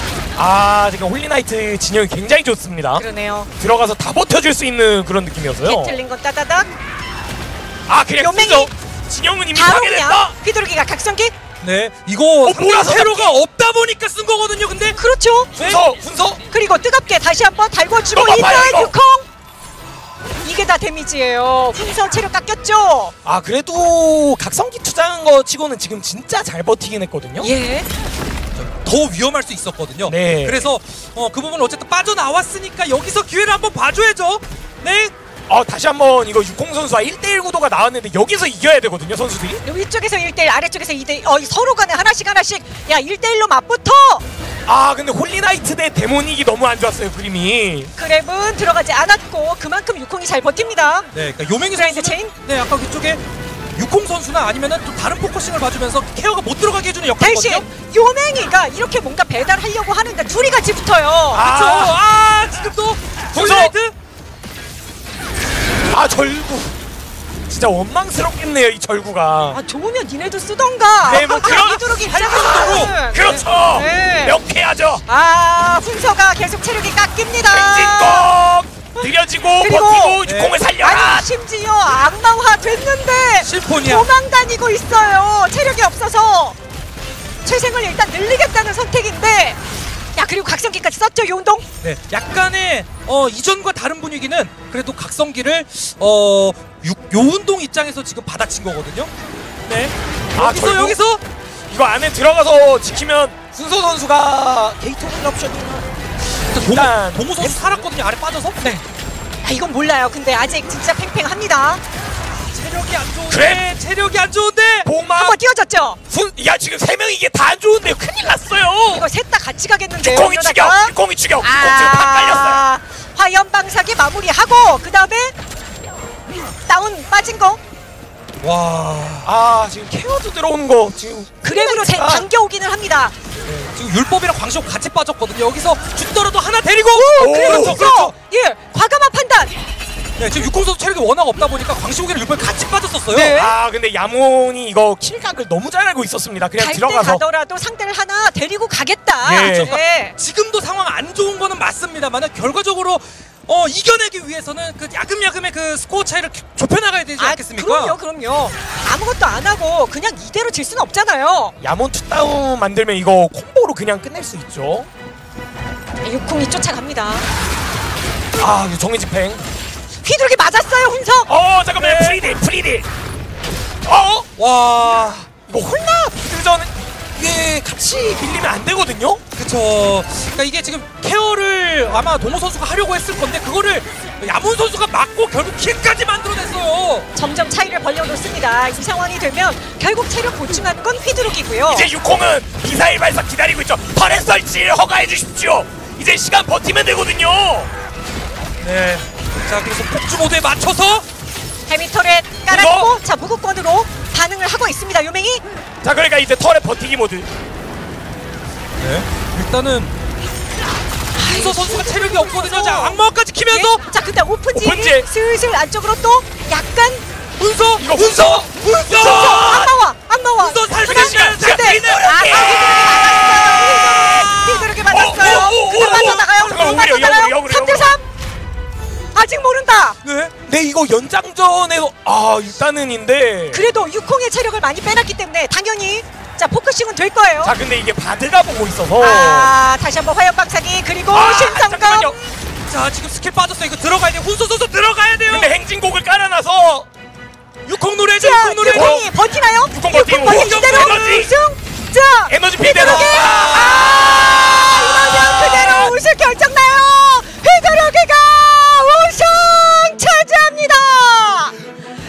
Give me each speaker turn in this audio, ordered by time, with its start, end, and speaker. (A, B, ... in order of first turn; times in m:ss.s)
0:00.4-0:03.0 A
0:03.0-0:03.5 B
0:03.6-0:06.0 A
0:05.6-0:06.7 B
0:07.9-0:10.3 A
0:08.2-0:08.7 B
0:09.5-0:11.3 B
0:11.6-0:15.0 C
0:12.4-0:13.3 A
0:15.0-0:15.6 B
0:15.6-0:16.4 A
0:15.6-0:15.9 C
0:16.5-0:19.2 B
0:18.1-0:18.9 A
0:20.4-0:23.1 B
0:23.2-0:27.5 A
0:27.4-0:27.9 B
0:28.6-0:35.1 C
0:30.0-0:30.7 A
0:35.5-0:39.6 A
0:39.6-0:44.2 B
0:44.7-0:47.9 A
0:48.0-0:51.1 B
0:51.1-0:53.2 C
0:51.7-0:52.3 B
0:53.7-0:57.6 C
0:57.2-1:01.4 B
1:01.3-1:02.0 A
1:01.4-1:03.9 C
1:03.3-1:03.7 A
1:05.9-1:06.7 A
1:07.5-1:09.6 A
1:09.5-1:14.4 B
1:11.0-1:15.0 A
1:11.2-1:13.4 C
1:15.1-1:18.3 B
1:17.5-1:21.3 A
1:18.9-1:20.2 B
1:20.2-1:20.6 C
1:20.8-1:26.6 B
1:23.4-1:24.1 C
1:27.4-1:29.6 B
1:30.2-1:31.6 B
1:31.8-1:39.1 C
1:39.7-1:41.2 C
1:40.4-1:41.0 A
1:41.7-1:45.9 A
1:46.5-1:48.6 C
1:46.7-1:47.9 A
1:49.4-1:51.8 B
1:52.5-1:54.9 C
1:53.3-1:53.6 A
1:54.8-1:55.4 A
1:55.2-1:56.0 B
1:56.1-1:59.1 A
1:58.9-2:05.3 B
2:00.0-2:02.6 A
2:06.6-2:07.6 B
2:08.4-2:09.3 C
2:09.2-2:12.3 A
2:11.4-2:13.1 B
2:13.4-2:18.1 C
2:16.9-2:19.5 B
2:17.2-2:17.9 A
2:20.2-2:23.3 C
2:23.1-2:23.6 B
2:23.3-2:27.2 A
2:26.6-2:30.1 B
2:29.2-2:29.7 A
2:29.4-2:38.0 C
2:37.2-2:41.5 B
2:41.6-2:44.9 A
2:46.0-2:47.3 B
2:48.4-2:49.4 A
2:50.0-2:51.3 B
2:51.3-2:52.9 A
2:51.8-2:52.4 C
2:53.8-2:54.3 A
2:54.4-2:55.3 C
2:55.4-2:59.2 A
2:59.4-3:07.1 C
3:07.1-3:11.9 B
3:11.7-3:17.7 A
3:18.6-3:21.0 C
3:21.7-3:25.4 B
3:22.5-3:22.9 A
3:25.8-3:27.3 A
3:28.8-3:29.9 C
3:31.1-3:37.0 B
3:31.2-3:33.8 C
3:34.6-3:35.0 A
3:37.4-3:39.6 C
3:37.8-3:39.7 A
3:38.9-3:48.0 B
3:40.4-3:43.0 C
3:40.8-3:48.0 A
3:49.1-3:50.0 B
3:50.0-3:50.3 C
3:50.4-3:53.6 A
3:53.5-3:57.5 B
3:57.4-3:59.6 A
3:59.0-4:02.1 B
4:01.1-4:02.2 A
4:02.2-4:05.5 C
4:05.2-4:06.9 A
4:07.6-4:09.0 C
4:08.2-4:21.5 B
4:08.7-4:09.1 A
4:09.6-4:11.3 A
4:10.2-4:11.3 C
4:12.3-4:16.0 A
4:12.8-4:13.9 C